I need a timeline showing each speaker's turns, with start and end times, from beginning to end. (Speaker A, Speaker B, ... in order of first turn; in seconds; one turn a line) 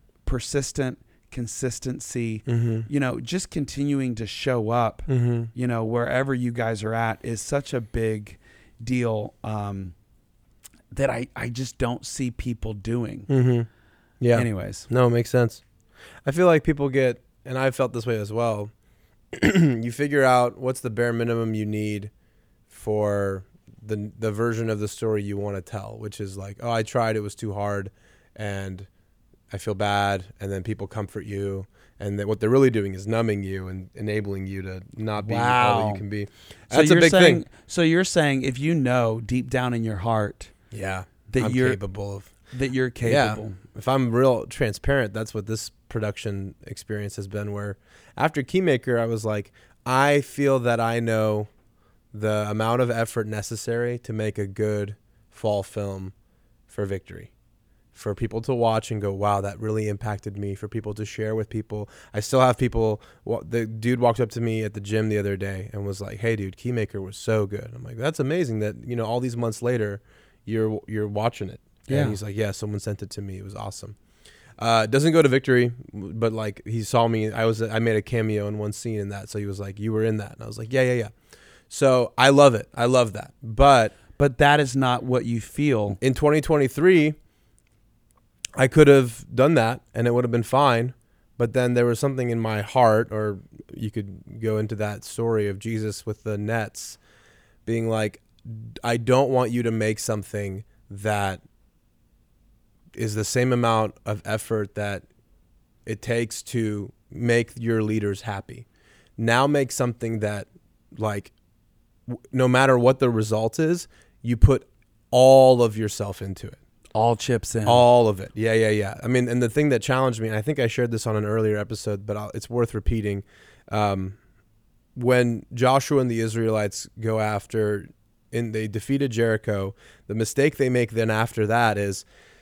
Speaker A: 0.2-9.9
Speaker B: 2.5-2.9
Speaker B: 5.1-5.5
Speaker A: 10.9-13.3
Speaker B: 13.3-13.7
Speaker B: 14.2-15.6
Speaker A: 14.3-14.9
Speaker B: 16.2-18.7
Speaker B: 19.3-22.1
Speaker B: 22.7-28.9
Speaker B: 29.5-37.4
Speaker A: 35.2-36.0
Speaker A: 36.7-40.5
Speaker B: 40.7-42.3
Speaker A: 41.3-41.8
Speaker A: 42.5-43.6
Speaker B: 43.0-51.5
Speaker B: 52.1-56.1
Speaker B: 56.7-57.3
Speaker B: 57.9-74.0
Speaker A: 71.9-72.2
Speaker B: 74.6-81.1
Speaker B: 81.7-84.0
Speaker A: 84.2-86.0
Speaker B: 86.0-87.2
Speaker B: 88.6-97.0
Speaker B: 97.7-101.4
Speaker B: 102.9-105.0
Speaker B: 105.8-108.7
Speaker B: 109.2-111.3
Speaker B: 112.1-116.6
Speaker A: 116.9-117.8
Speaker B: 117.7-124.2
Speaker B: 125.0-132.0